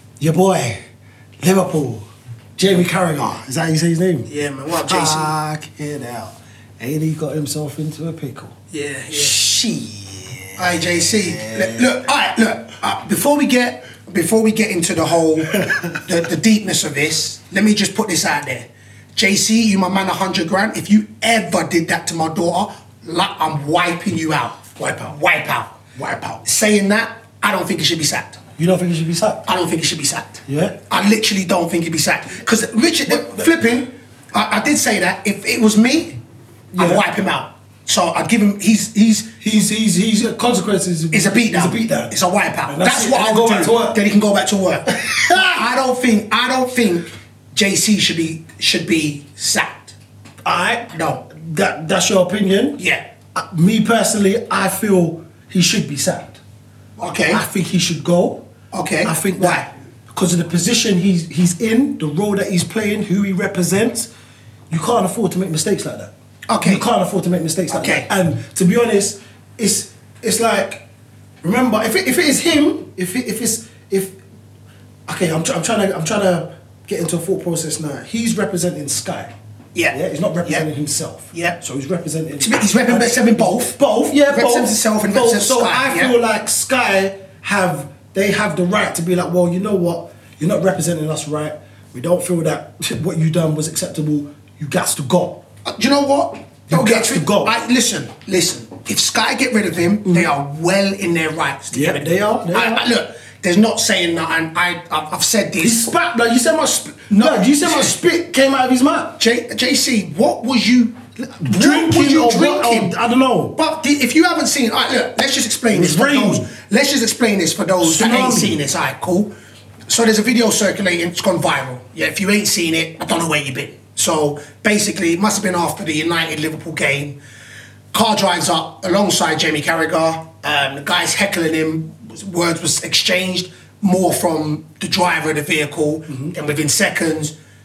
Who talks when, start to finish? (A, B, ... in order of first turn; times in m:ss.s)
0:00.2-0:00.8 A
0:01.4-0:02.0 A
0:02.6-0:04.3 A
0:04.3-0:05.3 B
0:04.8-0:08.6 A
0:08.7-0:09.4 B
0:09.1-0:11.9 A
0:10.6-0:28.4 B
0:26.0-0:26.4 A
0:28.6-0:29.4 A
0:29.4-0:36.2 B
0:30.5-0:30.8 A
0:33.1-0:33.5 A
0:36.7-0:37.0 A
0:36.7-0:39.4 B
0:39.4-0:42.1 A
0:41.1-0:50.0 B
0:42.7-0:44.0 A
0:44.9-0:45.6 A
0:50.4-0:52.8 A
0:50.9-0:51.2 B
0:52.8-0:53.0 B
0:53.4-0:56.4 A
0:57.0-0:57.4 B
0:57.3-0:58.4 A
0:58.7-0:59.7 B
0:59.0-1:04.1 A
1:04.7-1:06.1 A
1:06.5-1:06.8 B
1:06.6-1:10.8 A
1:07.7-1:08.1 B
1:11.4-1:14.2 A
1:15.1-1:19.3 A
1:19.8-1:20.7 B
1:19.9-1:35.4 A
1:21.3-1:21.6 B
1:22.4-1:23.8 B
1:24.3-1:26.2 B
1:35.6-1:45.9 B
1:36.7-1:37.5 A
1:40.0-1:40.3 A
1:41.7-1:42.8 A
1:45.6-1:49.2 A
1:47.1-1:47.9 B
1:49.2-1:52.9 B
1:51.2-1:53.6 A
1:53.6-1:59.3 B
1:55.7-1:56.5 A
1:57.8-1:58.6 A
1:59.9-2:07.2 B
2:07.9-2:17.4 B